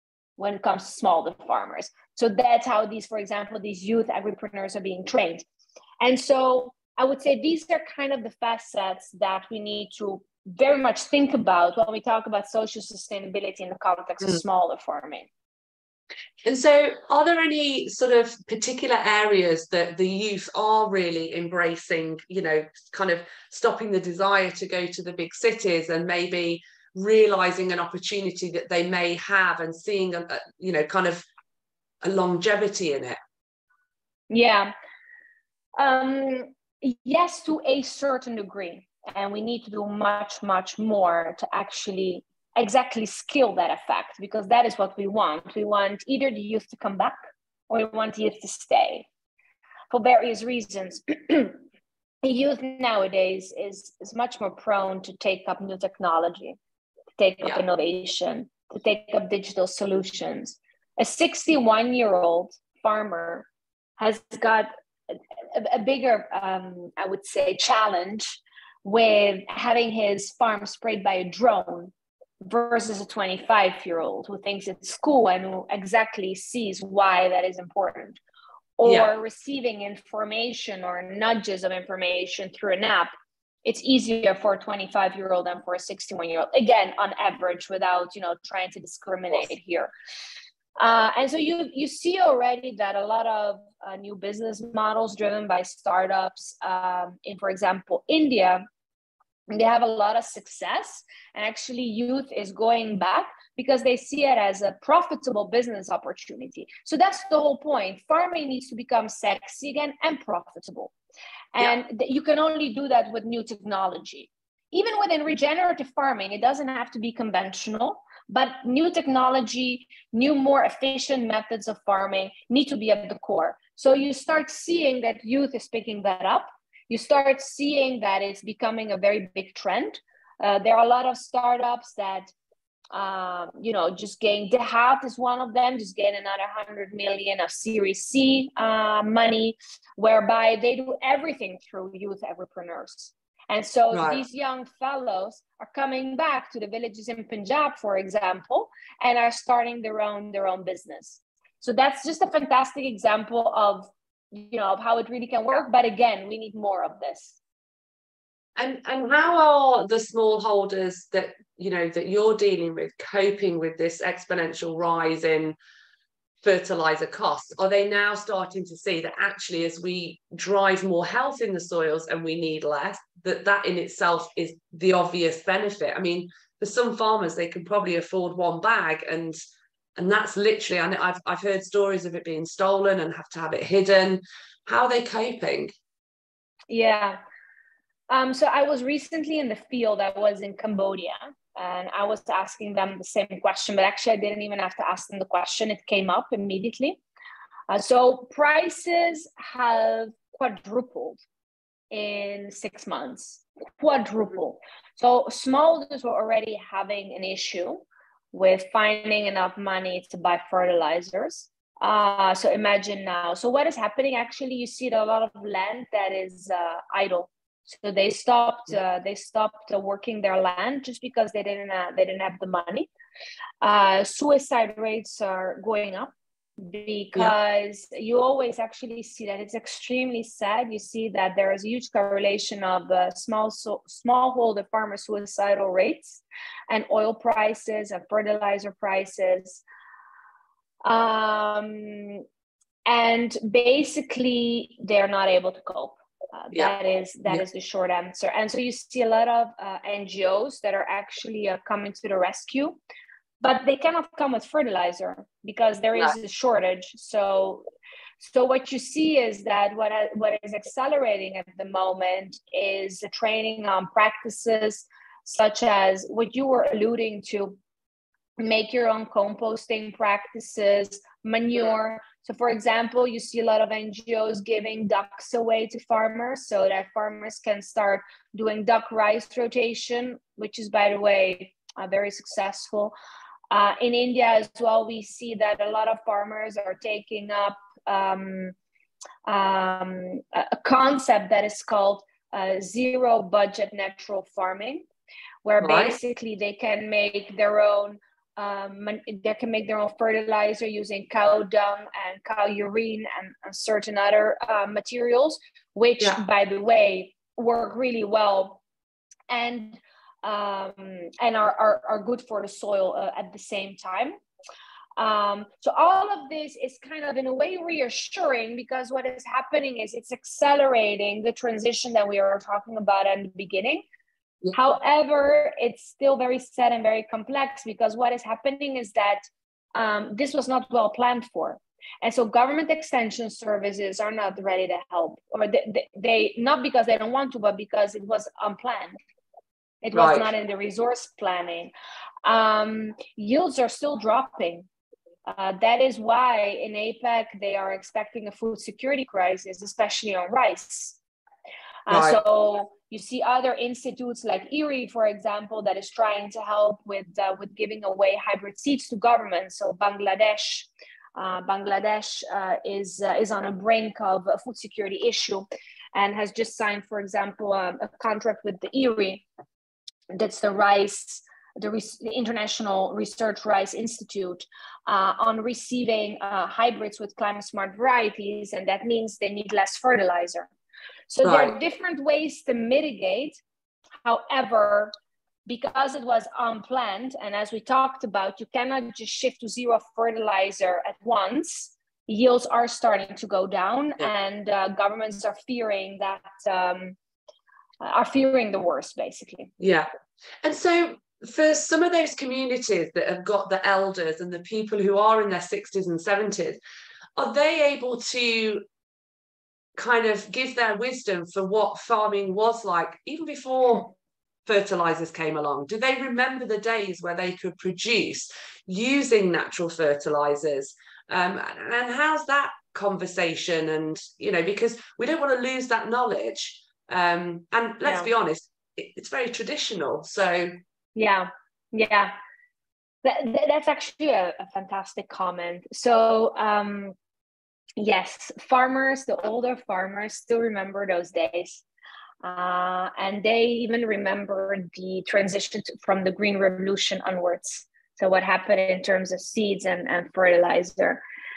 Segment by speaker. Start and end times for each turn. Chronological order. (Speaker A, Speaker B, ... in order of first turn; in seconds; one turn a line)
Speaker A: 0.4-5.5
Speaker A: 6.0-15.3
Speaker B: 16.4-31.2
Speaker B: 32.0-33.2
Speaker A: 34.3-34.7
Speaker A: 35.8-47.1
Speaker A: 47.7-49.1
Speaker A: 49.9-51.6
Speaker A: 52.2-56.6
Speaker A: 57.2-63.5
Speaker A: 64.0-64.7
Speaker A: 65.5-71.9
Speaker A: 72.4-78.2
Speaker A: 78.8-83.1
Speaker B: 78.8-79.1
Speaker A: 83.6-89.9
Speaker A: 90.8-98.6
Speaker A: 99.5-110.9
Speaker A: 111.5-132.3
Speaker A: 132.9-157.4
Speaker B: 143.9-144.2
Speaker B: 158.6-165.5
Speaker B: 166.4-179.4
Speaker B: 180.0-185.7
Speaker A: 186.7-187.2
Speaker A: 188.1-197.0
Speaker A: 197.7-201.2
Speaker A: 201.9-222.9
Speaker A: 223.6-239.6
Speaker A: 240.8-242.2
Speaker A: 242.8-252.8
Speaker A: 253.4-257.6
Speaker A: 258.2-267.6
Speaker A: 268.4-282.9
Speaker A: 283.5-288.5
Speaker A: 289.2-294.9
Speaker A: 295.4-308.6
Speaker B: 295.6-295.9
Speaker A: 309.3-314.2
Speaker A: 315.0-323.8
Speaker A: 324.5-339.0
Speaker A: 339.8-341.7
Speaker B: 339.9-340.3
Speaker A: 342.2-344.7
Speaker A: 345.2-351.0
Speaker A: 351.9-369.2
Speaker B: 351.9-352.2
Speaker A: 370.1-380.5
Speaker A: 381.1-383.4
Speaker B: 381.2-381.5
Speaker A: 384.0-384.9
Speaker A: 385.4-396.9
Speaker A: 397.8-399.5
Speaker B: 399.6-399.9
Speaker B: 400.4-406.6
Speaker B: 407.1-408.6
Speaker B: 409.8-413.9
Speaker B: 414.4-430.5
Speaker A: 430.9-432.1
Speaker A: 433.0-436.9
Speaker A: 437.8-441.6
Speaker A: 442.2-451.0